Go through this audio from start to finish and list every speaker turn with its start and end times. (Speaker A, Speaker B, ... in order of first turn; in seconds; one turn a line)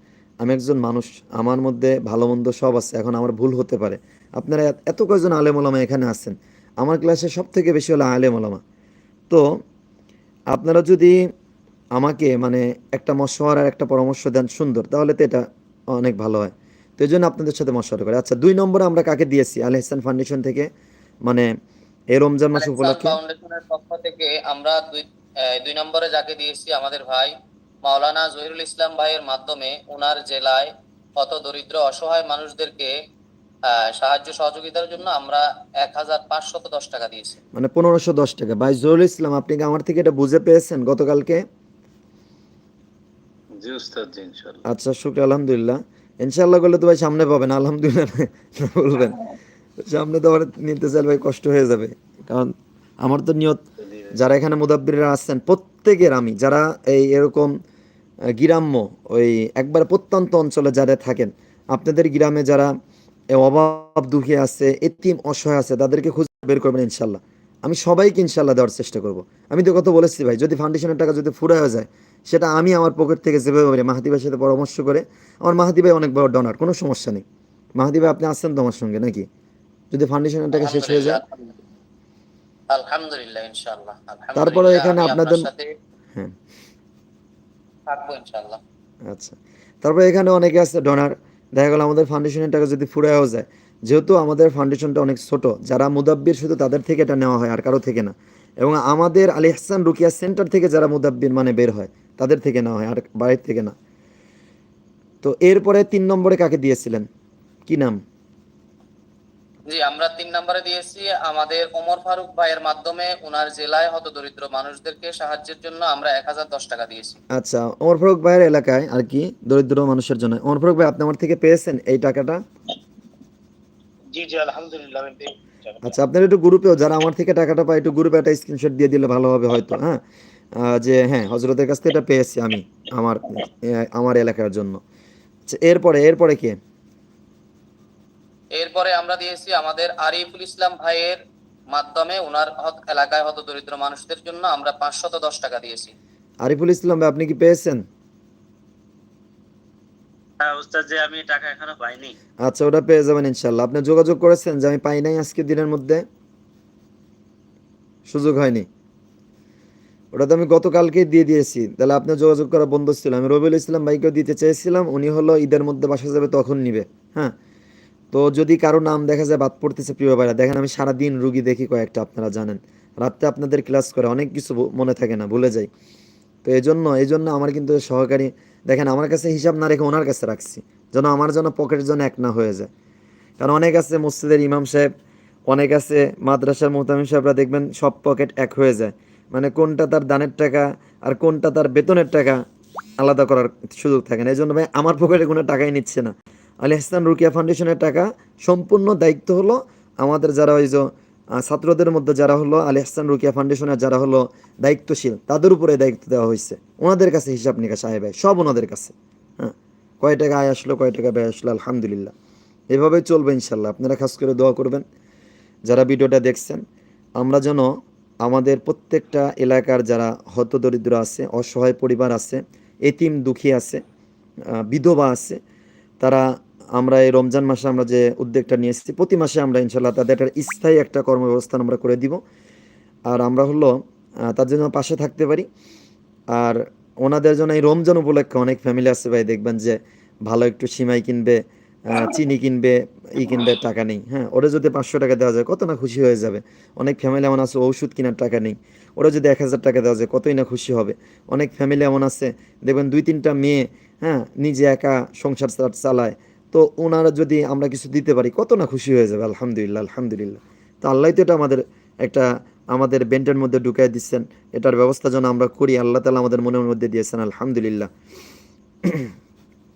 Speaker A: 0.4-8.6
Speaker A: 10.5-11.2
Speaker A: 11.9-15.4
Speaker A: 15.9-20.7
Speaker A: 22.1-23.2
Speaker B: 22.5-27.3
Speaker B: 27.8-32.9
Speaker B: 33.7-37.4
Speaker A: 37.5-41.4
Speaker C: 43.6-44.6
Speaker A: 44.6-49.3
Speaker A: 49.9-53.6
Speaker C: 53.8-54.1
Speaker A: 54.1-57.5
Speaker A: 58.4-62.7
Speaker A: 63.3-77.2
Speaker A: 77.8-79.2
Speaker A: 79.9-81.2
Speaker B: 80.5-81.4
Speaker B: 82.7-85.7
Speaker A: 84.3-85.5
Speaker B: 87.9-88.6
Speaker A: 89.1-103.7
Speaker A: 105.2-107.0
Speaker A: 107.7-108.0
Speaker B: 109.7-117.2
Speaker A: 117.3-122.4
Speaker C: 124.1-125.3
Speaker A: 125.8-130.0
Speaker A: 130.6-134.8
Speaker A: 135.5-136.5
Speaker B: 138.6-141.2
Speaker B: 141.7-145.9
Speaker A: 146.4-147.8
Speaker C: 150.4-152.1
Speaker A: 152.4-156.0
Speaker A: 158.1-158.7
Speaker A: 160.1-167.3
Speaker A: 168.1-175.7
Speaker A: 176.4-182.7
Speaker A: 183.4-184.9
Speaker A: 185.5-192.4
Speaker A: 193.0-200.8
Speaker A: 201.4-212.1
Speaker A: 212.7-214.8
Speaker A: 215.7-216.6
Speaker A: 217.2-217.7
Speaker A: 218.2-223.8
Speaker A: 224.5-225.4
Speaker A: 226.8-232.2
Speaker A: 233.1-233.8
Speaker A: 234.3-235.4
Speaker A: 236.3-267.9